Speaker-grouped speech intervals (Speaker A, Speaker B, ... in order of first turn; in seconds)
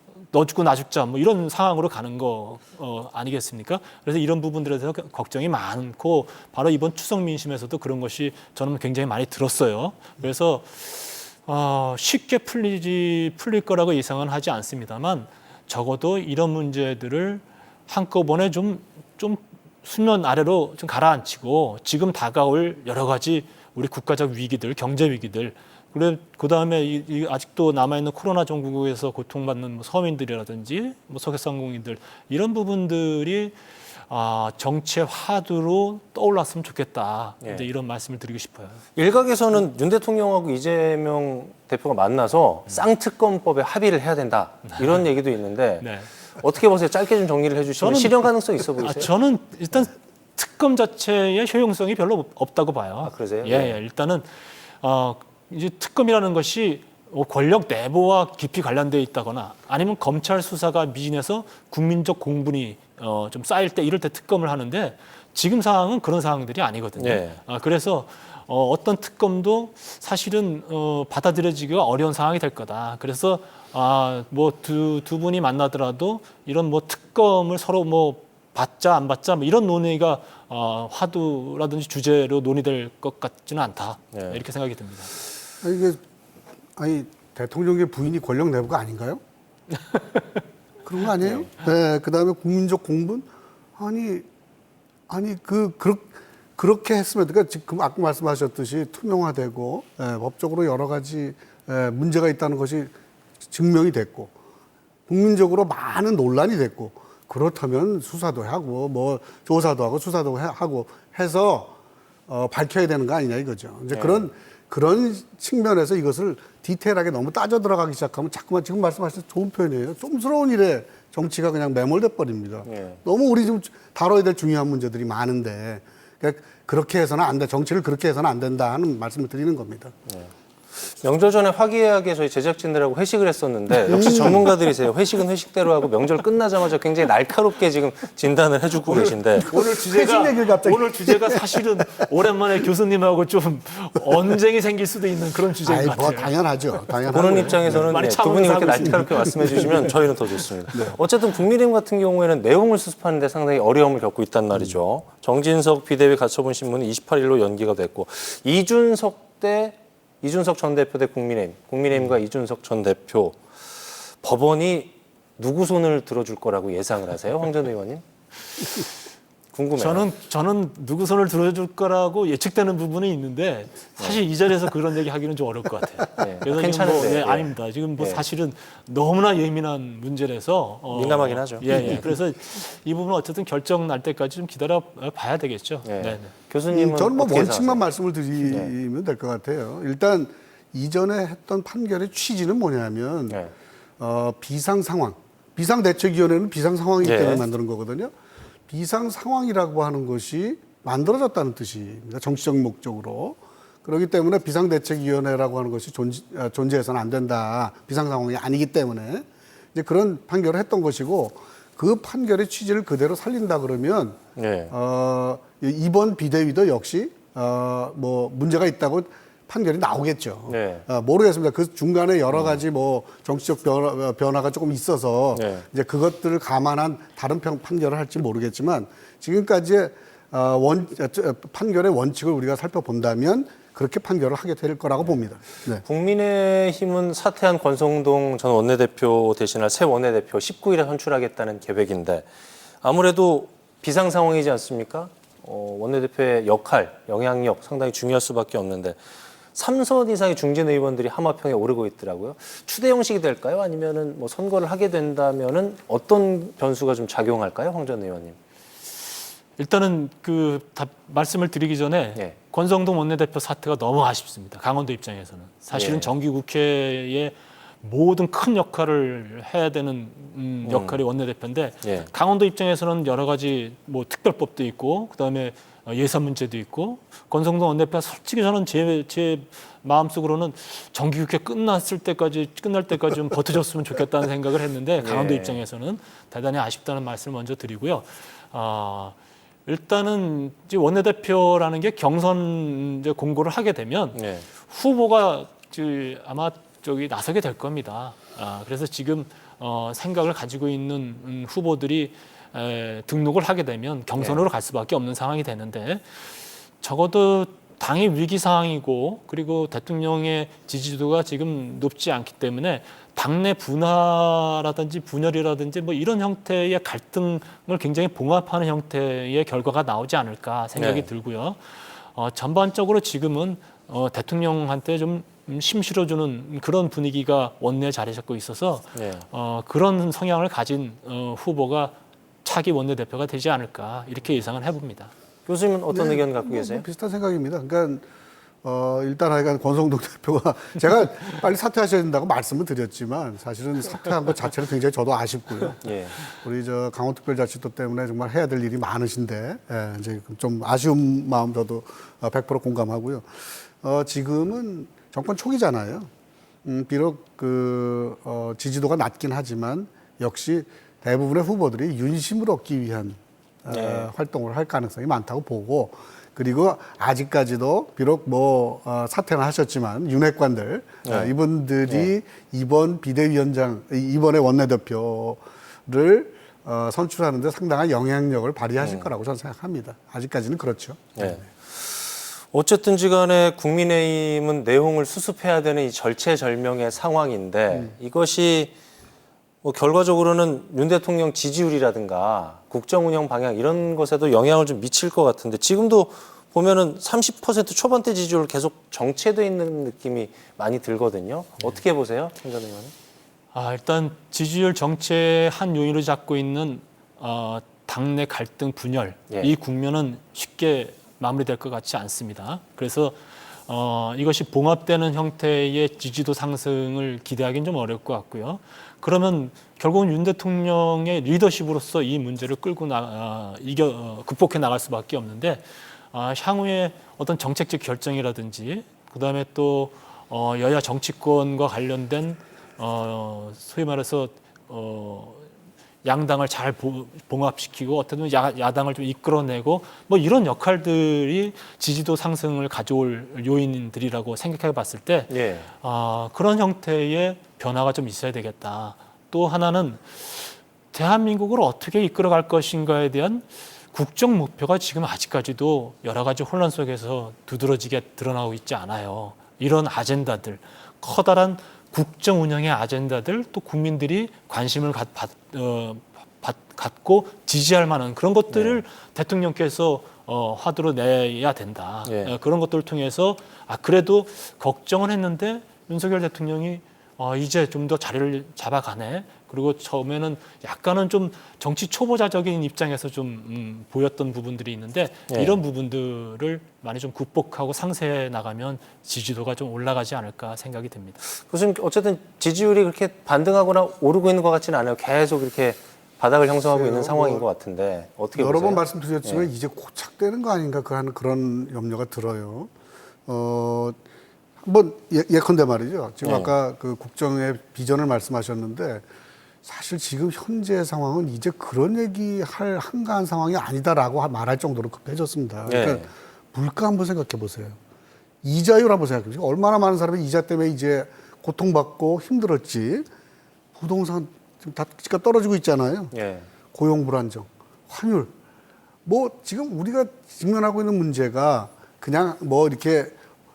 Speaker A: 0.3-33.5, 34.1-38.8, 44.7-45.0, 45.8-46.1, 47.8-85.1, 89.9-90.2, 139.4-146.3, 147.0-149.9, 169.8-186.3, 259.6-289.1, 289.6-335.1, 403.5-435.5, 436.0-491.2
Speaker B: 37.4-37.7, 39.0-49.1, 53.0-53.8, 67.0-67.4, 84.1-84.4, 91.2-91.5, 113.9-114.3, 122.7-123.0, 130.1-139.5, 147.1-168.0, 169.5-170.1, 176.2-178.2, 180.9-182.1, 185.8-187.8, 188.4-188.7, 197.0-197.4, 214.3-214.7, 220.5-220.8, 222.3-222.6, 225.3-225.6, 235.8-242.2, 242.8-249.0, 249.5-258.4, 265.7-266.1, 270.6-271.0, 271.8-272.1, 285.0-285.6, 294.1-294.5, 320.8-321.1, 328.9-329.2, 335.4-336.9, 345.8-346.2, 363.7-364.1, 371.0-371.3, 371.9-372.1, 381.1-388.7, 389.6-402.9, 445.3-445.7, 468.5-468.8, 472.1-472.3, 485.3-485.6, 491.5-499.5, 506.2-506.5, 515.7-516.0, 526.1-526.5
Speaker C: 85.6-86.0, 86.8-89.2, 90.8-94.2, 95.1-102.9, 103.4-104.3, 105.1-111.8, 112.3-129.9, 133.9-134.5, 138.9-141.6, 145.6-147.9, 181.6-182.2, 186.7-193.4, 194.0-198.1, 198.7-235.8, 335.9-338.1, 338.6-356.1, 356.6-381.4, 496.7-497.4, 498.3-502.7, 503.3-504.0, 504.6-509.0, 509.6-517.8, 518.4-523.1, 523.7-526.1, 526.7-528.3, 529.0-533.1